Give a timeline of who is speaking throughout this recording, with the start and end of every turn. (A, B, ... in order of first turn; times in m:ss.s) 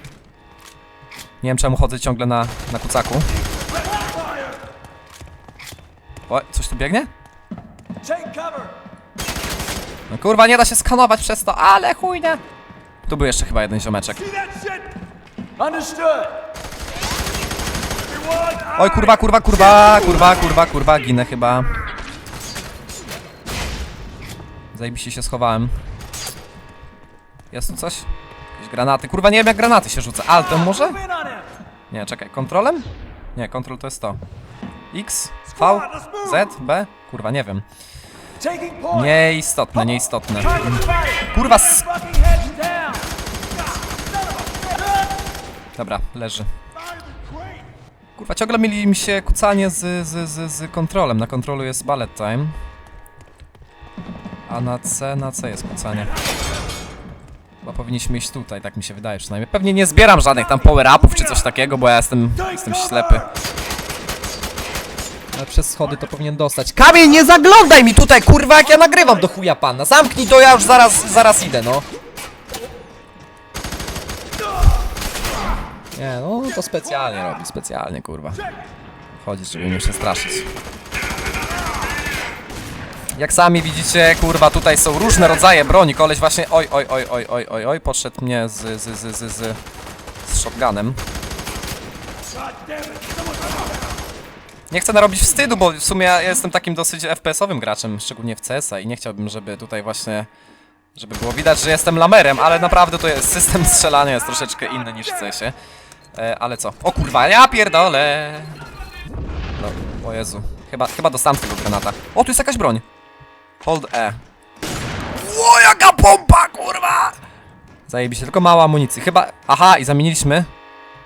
0:01.4-0:03.3 A
0:06.3-0:07.1 A
0:08.0-0:08.7 B
0:10.1-0:12.4 A
0:13.1-0:14.3 A
0:14.4-0:14.8 B
0:15.6-0:16.4 B
0:18.2-0:19.0 B
0:18.7-0:21.7 A
0:24.7-0:25.7 A
0:27.5-0:31.0 A
0:31.9-0:34.2 A
0:34.9-0:37.6 A
0:38.4-0:38.8 B
0:38.9-0:42.3 A
0:40.6-0:41.2 B
0:42.0-0:43.0 B
0:44.4-0:44.8 B
0:45.8-0:46.5 A
0:47.1-0:47.6 B
0:48.2-0:52.5 A
0:54.5-0:56.1 A
0:57.6-1:03.3 A
1:05.3-1:11.8 A
1:16.0-1:18.4 A
1:19.2-1:20.5 A
1:23.2-1:29.6 A
1:30.2-1:31.0 A
1:34.7-1:40.3 A
1:40.9-1:45.5 A
1:46.1-1:48.6 A
1:49.6-1:52.8 A
1:53.6-1:54.2 A
1:55.1-1:57.2 A
1:57.9-2:00.5 A